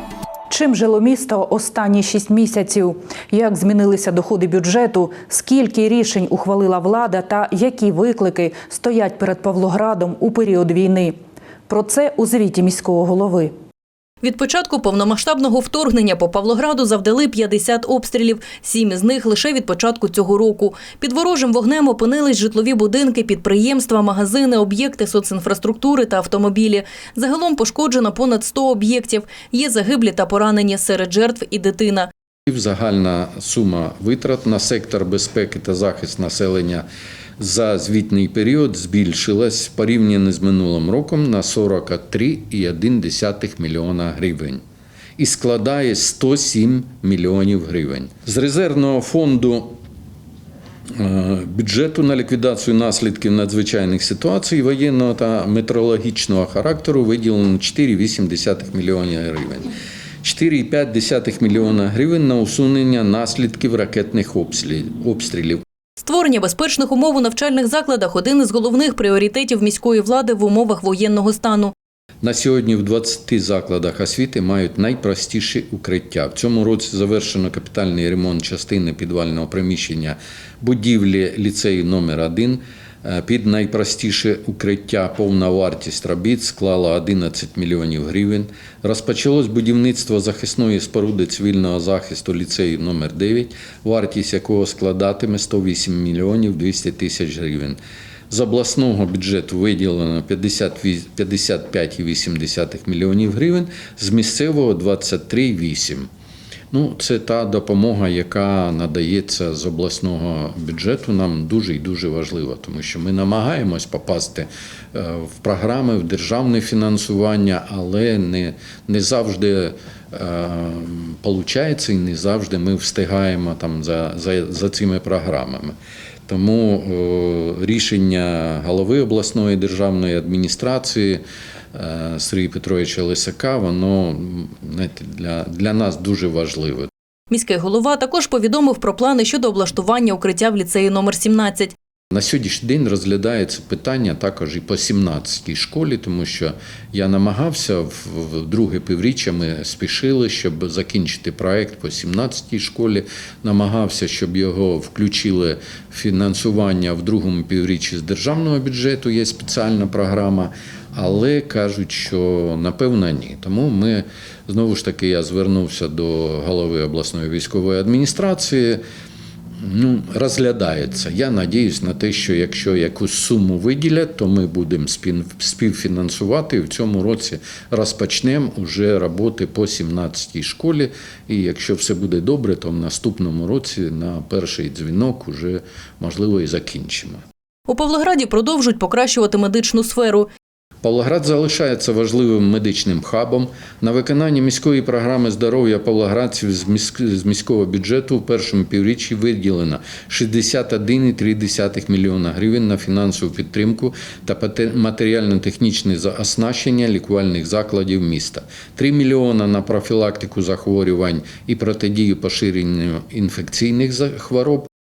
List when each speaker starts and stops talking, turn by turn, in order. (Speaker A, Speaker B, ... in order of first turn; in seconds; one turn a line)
Speaker A: 0.5-11.2
Speaker A: 11.7-13.5
Speaker B: 14.2-32.1
Speaker C: 32.5-36.9
Speaker C: 37.4-44.6
Speaker C: 45.2-49.8
Speaker C: 50.9-59.7
Speaker C: 60.2-65.6
Speaker B: 66.0-71.7
Speaker C: 72.2-97.8
Speaker C: 98.3-106.1
Speaker C: 106.7-125.8
Speaker C: 126.3-136.9
Speaker B: 137.3-141.7
Speaker C: 142.1-168.8
Speaker C: 169.6-187.2
Speaker B: 187.7-190.3
Speaker C: 190.8-214.7